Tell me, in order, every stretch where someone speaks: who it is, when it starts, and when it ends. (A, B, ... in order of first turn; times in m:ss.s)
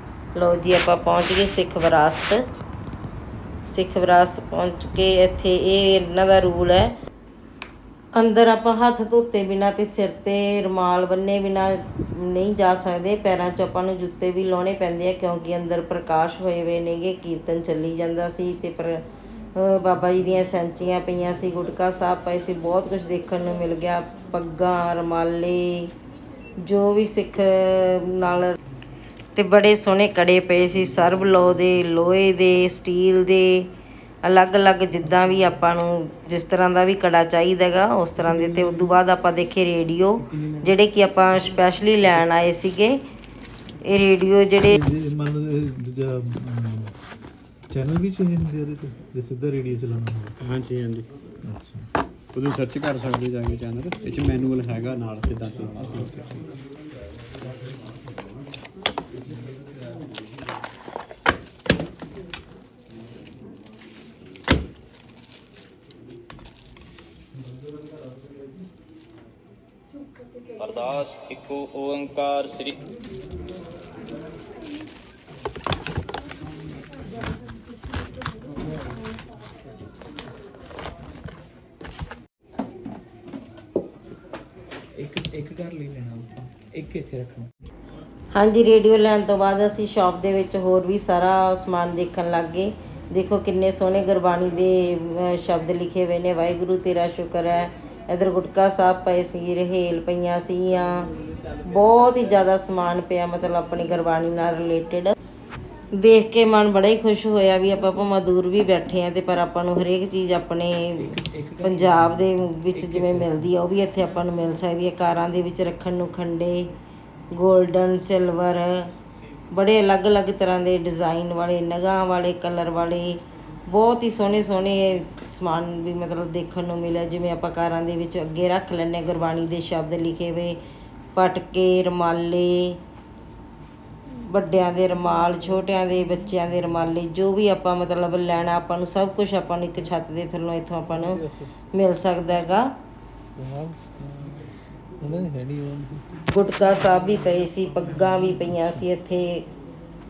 0:00.4-0:02.4 A
0:03.7-0:06.9 A
0:08.2-0:25.9 A
0:26.6-0:28.6 A
0:29.4-0:33.7 A
0:34.2-0:43.0 A
0:43.8-0:44.8 A
0:44.7-0:46.9 B
0:47.7-0:50.4 B
0:50.4-0:51.1 C
0:51.4-0:51.9 B
0:52.3-0:56.2 C
0:55.8-0:56.3 B
1:10.6-1:12.8 D
1:25.0-1:27.5 E
1:28.3-1:41.1 A
1:41.7-1:45.1 A
1:45.9-1:51.1 A
1:51.0-1:53.5 E
1:51.6-1:56.7 A
1:57.3-1:58.9 A
1:59.5-2:10.6 A
2:11.2-2:12.8 A
2:14.3-2:21.2 A
2:21.0-2:21.5 B
2:21.7-2:22.7 A
2:23.4-2:24.4 B
2:25.0-2:26.0 B
2:26.3-2:29.4 A